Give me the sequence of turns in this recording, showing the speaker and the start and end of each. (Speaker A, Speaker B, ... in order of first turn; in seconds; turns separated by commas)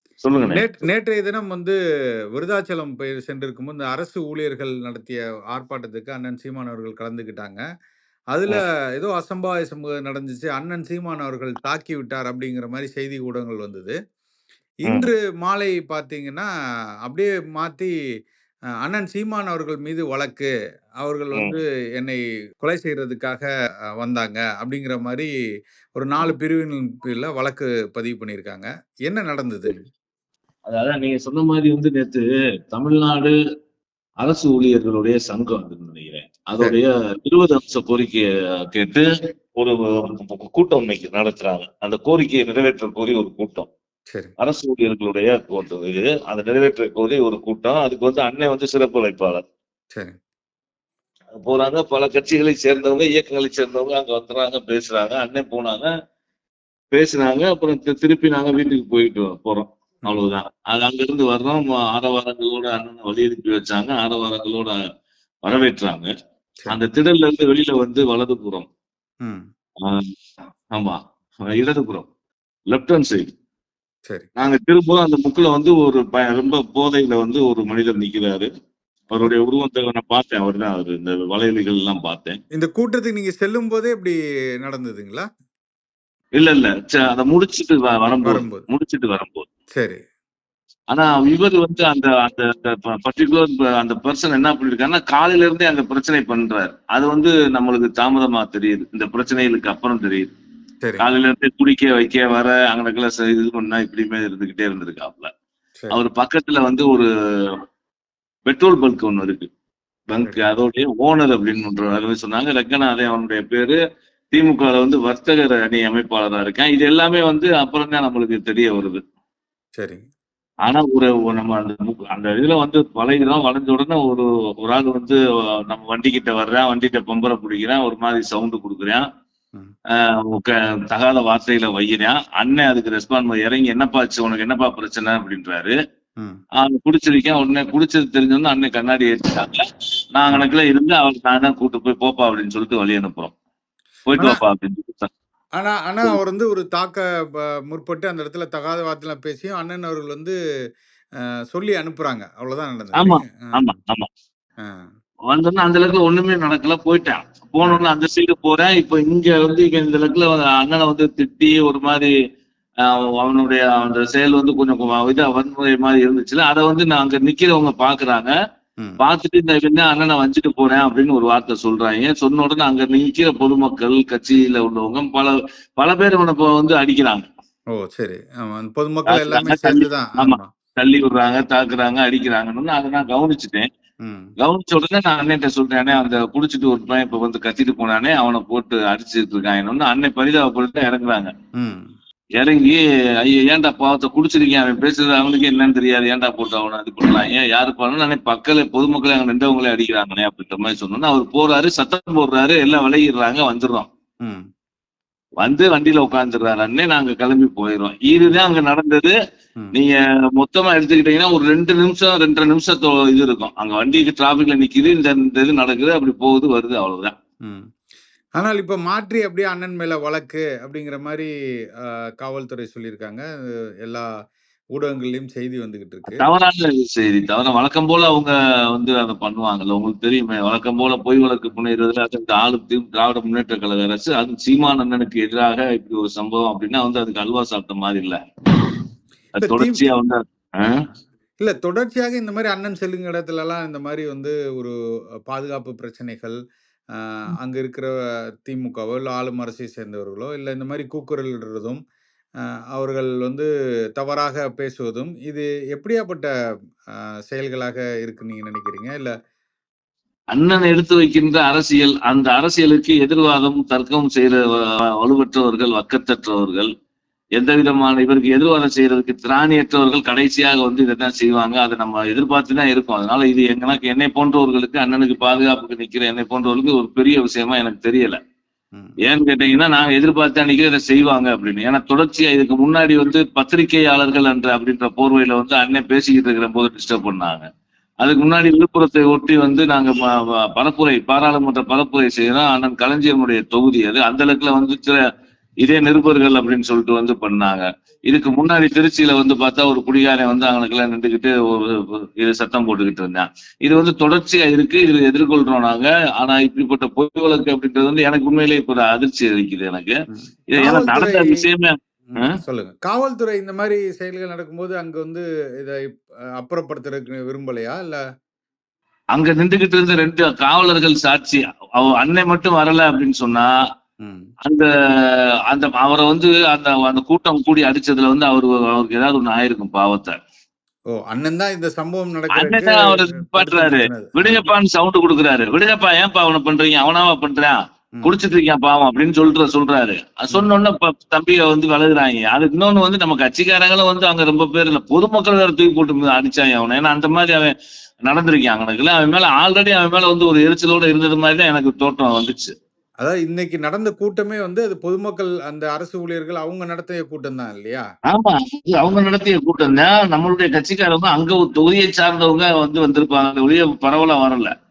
Speaker A: 0.2-0.9, Speaker B: 0.4-1.8, Speaker B: 2.4-7.6, Speaker B: 8.3-13.9, Speaker B: 14.8-16.5, Speaker B: 17.1-17.9, Speaker B: 18.8-20.5, Speaker B: 21.0-23.5, Speaker B: 24.0-25.3, Speaker B: 25.9-29.8, Speaker A: 30.7-33.4, Speaker A: 34.2-39.1, Speaker A: 39.6-43.7, Speaker A: 44.4-49.4, Speaker A: 51.4-55.9, Speaker A: 56.9-64.8, Speaker A: 65.5-66.1, Speaker A: 66.7-68.7, Speaker A: 70.8-72.1, Speaker A: 72.7-73.3, Speaker A: 74.4-78.5, Speaker A: 79.1-82.4, Speaker B: 82.5-85.2, Speaker A: 86.4-89.5, Speaker B: 88.2-88.6, Speaker B: 89.8-90.0, Speaker A: 90.9-100.3, Speaker A: 101.0-105.3, Speaker A: 105.9-107.1, Speaker A: 108.5-109.5, Speaker A: 110.1-113.8, Speaker A: 114.3-119.0, Speaker B: 119.8-120.0, Speaker A: 120.7-129.0, Speaker A: 130.2-135.8, Speaker A: 136.6-139.6, Speaker A: 140.2-143.3, Speaker A: 144.1-145.1, Speaker B: 144.2-144.4, Speaker B: 145.6-150.3, Speaker B: 151.5-153.7, Speaker A: 152.9-154.1, Speaker A: 155.3-162.1, Speaker B: 157.6-157.9, Speaker A: 162.9-168.3, Speaker A: 169.0-177.2, Speaker B: 177.8-180.5, Speaker A: 179.1-183.7, Speaker B: 184.0-184.3, Speaker A: 184.4-191.3, Speaker B: 191.6-191.8, Speaker A: 192.4-203.9, Speaker A: 205.4-209.1, Speaker A: 209.7-217.1, Speaker B: 218.4-221.3, Speaker B: 221.8-223.2, Speaker B: 224.7-226.3, Speaker A: 226.1-238.2, Speaker A: 239.4-240.8, Speaker B: 239.4-239.9, Speaker B: 241.4-244.7, Speaker B: 245.3-246.4, Speaker B: 247.0-247.9, Speaker B: 248.4-251.8, Speaker B: 252.7-256.3, Speaker B: 256.9-259.1, Speaker A: 260.3-266.7, Speaker A: 267.4-278.2, Speaker A: 279.0-287.5, Speaker A: 288.0-295.0, Speaker A: 295.6-309.9, Speaker B: 310.1-311.4, Speaker A: 310.5-312.4, Speaker B: 312.1-315.8, Speaker B: 316.4-318.0, Speaker A: 319.1-323.5, Speaker B: 324.0-324.3, Speaker A: 324.4-330.2, Speaker B: 331.0-334.5, Speaker A: 332.3-347.5, Speaker A: 348.1-352.5, Speaker B: 353.0-357.8, Speaker A: 358.1-364.5